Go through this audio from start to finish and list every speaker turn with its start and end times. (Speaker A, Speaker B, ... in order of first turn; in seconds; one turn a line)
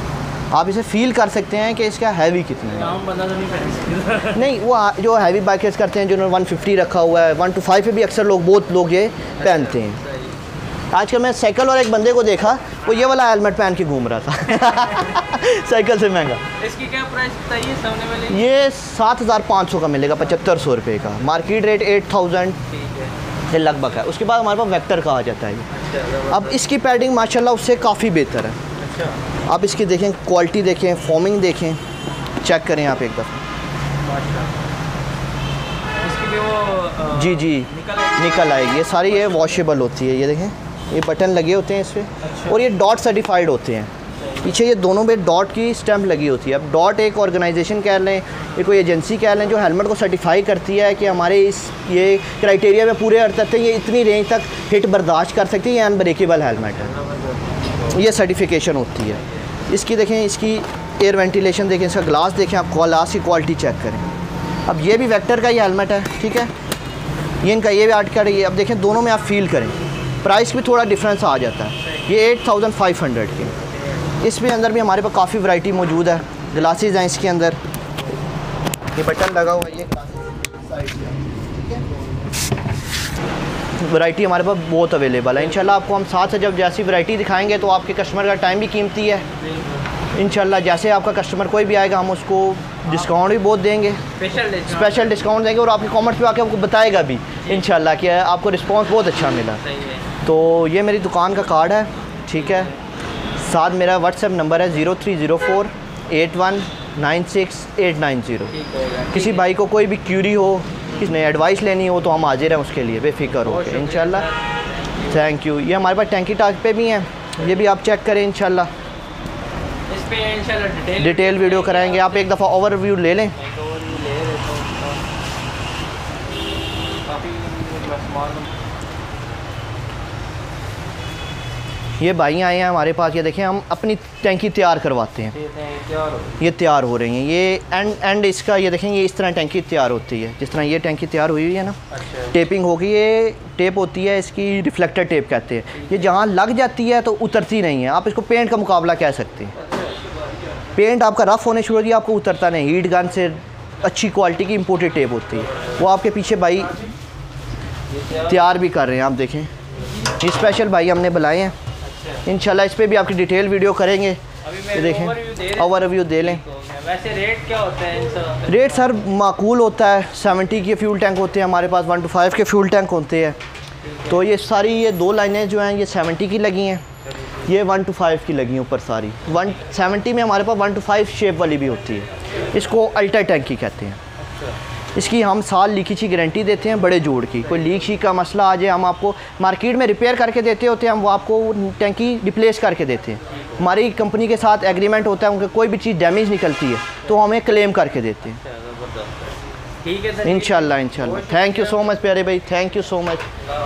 Speaker A: 0.5-2.9
Speaker B: 2.7-4.5
Speaker A: 4.3-10.0
Speaker B: 9.4-10.4
Speaker A: 10.9-16.4
Speaker B: 16.6-18.4
Speaker A: 18.3-22.6
Speaker B: 22.7-23.1
Speaker A: 23.5-25.7
Speaker B: 25.7-26.6
Speaker A: 26.3-28.6
Speaker B: 28.8-29.2
Speaker A: 29.5-31.8
Speaker A: 32.4-33.4
Speaker B: 34.0-34.5
Speaker B: 36.0-39.6
Speaker A: 37.1-43.9
Speaker B: 42.2-42.6
Speaker B: 44.2-44.6
Speaker A: 44.4-56.9
Speaker B: 56.7-58.0
Speaker A: 57.9-64.0
Speaker A: 64.7-66.5
Speaker A: 67.4-73.5
Speaker B: 71.8-72.1
Speaker A: 74.2-77.6
Speaker A: 78.9-82.0
Speaker A: 83.8-89.2
Speaker B: 85.4-85.8
Speaker B: 89.3-89.9
Speaker A: 90.1-94.0
Speaker B: 94.2-95.2
Speaker A: 94.6-99.6
Speaker B: 97.4-97.7
Speaker B: 99.6-100.1
Speaker A: 100.2-102.7
Speaker B: 102.3-102.8
Speaker A: 103.4-108.5
Speaker B: 108.5-109.5
Speaker A: 109.1-114.3
Speaker B: 113.4-115.3
Speaker A: 115.1-118.7
Speaker B: 117.4-117.7
Speaker B: 119.9-122.4
Speaker A: 121.0-123.4
Speaker B: 123.3-125.0
Speaker B: 127.0-128.5
Speaker A: 132.0-135.3
Speaker B: 135.3-136.4
Speaker A: 136.4-141.8
Speaker B: 141.9-142.4
Speaker A: 142.3-149.5
Speaker B: 145.8-146.1
Speaker B: 149.6-150.0
Speaker A: 150.8-156.8
Speaker B: 155.4-155.8
Speaker B: 157.9-158.5
Speaker A: 158.2-159.5
Speaker A: 160.2-161.5
Speaker B: 161.8-162.2
Speaker A: 162.2-164.2
Speaker B: 164.4-169.0
Speaker A: 164.7-166.4
Speaker A: 168.5-173.3
Speaker B: 173.8-174.2
Speaker A: 174.1-176.8
Speaker A: 177.4-184.0
Speaker A: 184.9-198.4
Speaker B: 198.4-199.3
Speaker B: 199.8-201.5
Speaker A: 200.2-203.2